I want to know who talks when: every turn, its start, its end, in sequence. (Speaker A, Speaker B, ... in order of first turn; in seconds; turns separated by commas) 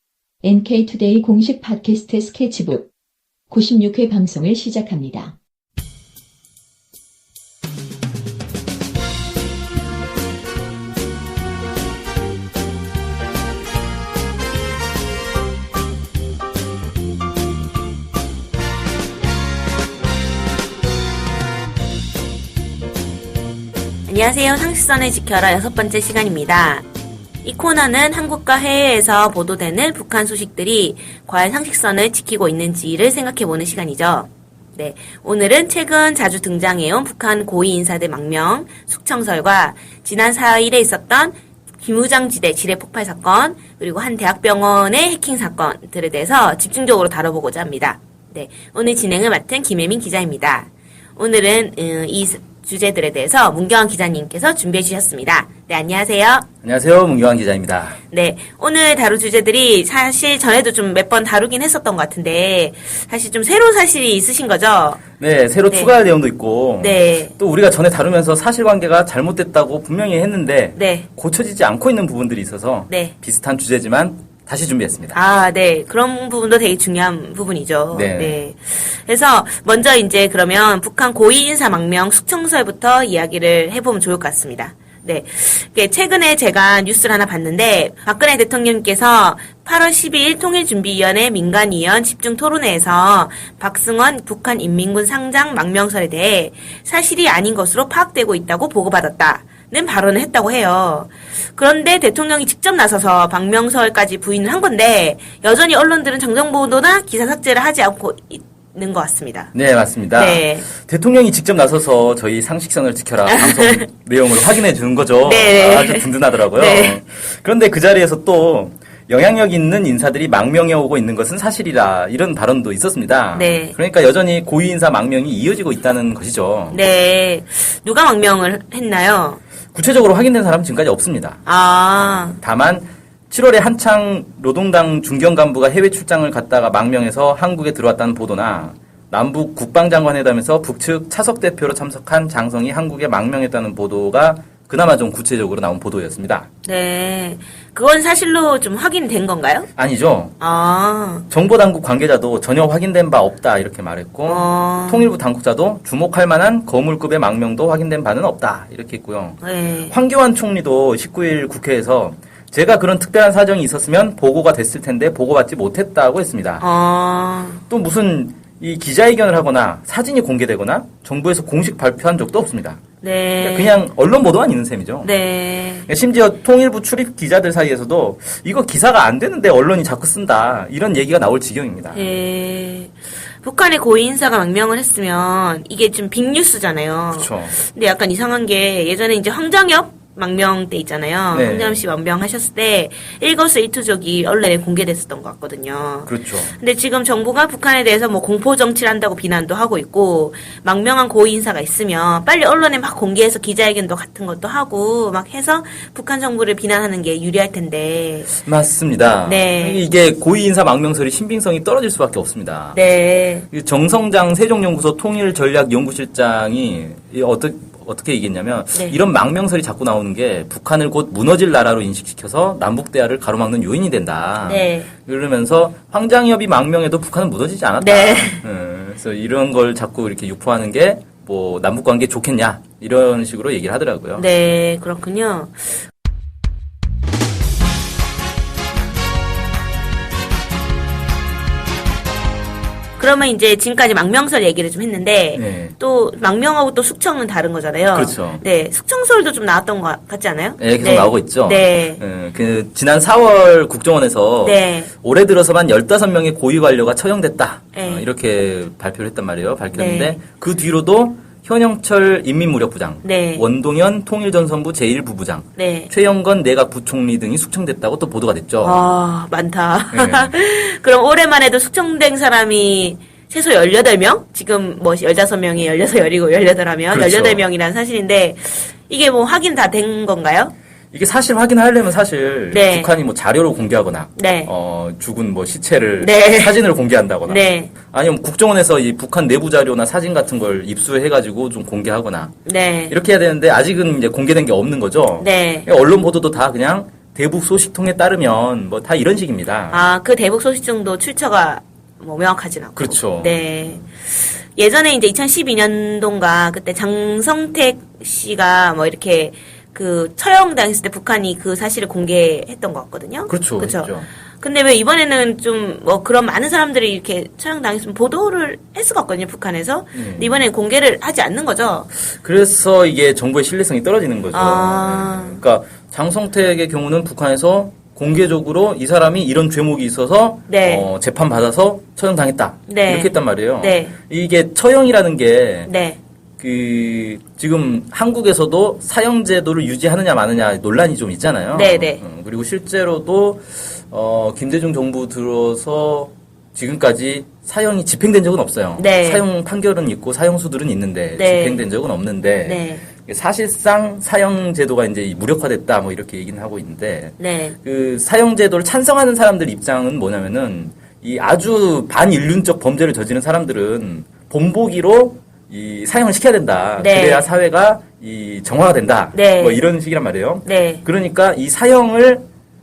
Speaker A: 0.4-2.9, Speaker A: 3.5-5.4, Speaker B: 24.1-26.8, Speaker B: 27.4-56.5, Speaker C: 56.6-58.0, Speaker B: 58.1-65.0, Speaker C: 65.2-75.2, Speaker B: 66.8-67.3, Speaker B: 70.8-71.1, Speaker B: 72.9-73.1, Speaker B: 75.1-109.5, Speaker C: 77.9-78.4, Speaker C: 109.5-126.8, Speaker B: 110.1-110.7, Speaker B: 113.3-113.9, Speaker B: 115.2-117.0, Speaker B: 123.3-123.7, Speaker B: 126.7-129.4, Speaker C: 129.7-131.4, Speaker B: 131.4-132.4, Speaker C: 132.1-146.5, Speaker B: 146.6-149.7, Speaker C: 149.8-150.4, Speaker B: 150.4-151.3, Speaker C: 151.3-166.6, Speaker B: 154.2-155.1, Speaker B: 159.4-159.9, Speaker B: 166.6-167.6, Speaker C: 167.7-172.8, Speaker B: 173.0-173.8, Speaker C: 173.4-175.1, Speaker B: 175.0-175.9, Speaker C: 175.9-182.1, Speaker B: 181.9-208.3, Speaker C: 187.1-187.6, Speaker C: 191.3-191.8, Speaker C: 196.1-196.5, Speaker C: 208.3-212.8, Speaker B: 209.2-209.8, Speaker B: 212.7-213.5, Speaker C: 213.5-234.3, Speaker B: 224.4-224.9, Speaker B: 227.8-228.4, Speaker B: 234.2-235.8, Speaker B: 243.0-252.0, Speaker C: 245.3-245.7, Speaker C: 247.9-248.4, Speaker C: 250.6-268.9, Speaker B: 254.4-254.9, Speaker B: 257.7-258.1, Speaker B: 259.7-260.2, Speaker B: 263.0-263.4, Speaker B: 265.6-265.9, Speaker B: 268.6-280.5, Speaker C: 269.9-270.4, Speaker C: 276.9-277.4, Speaker C: 280.9-292.3, Speaker B: 282.5-282.9, Speaker B: 284.1-284.5, Speaker B: 286.0-286.6, Speaker B: 287.3-287.7, Speaker B: 292.4-292.9, Speaker C: 292.9-299.9, Speaker B: 295.2-295.7, Speaker B: 299.7-321.9, Speaker C: 302.8-303.8, Speaker C: 313.3-314.1, Speaker C: 319.9-320.4, Speaker C: 322.1-335.7, Speaker B: 324.3-325.4, Speaker B: 330.5-330.9, Speaker B: 332.7-333.9, Speaker B: 335.6-336.0, Speaker C: 336.4-372.2, Speaker B: 341.5-342.0, Speaker B: 348.8-349.2, Speaker B: 351.1-351.6, Speaker B: 352.4-352.8, Speaker B: 357.2-357.6, Speaker B: 366.8-367.3, Speaker B: 369.1-369.6, Speaker B: 370.4-370.8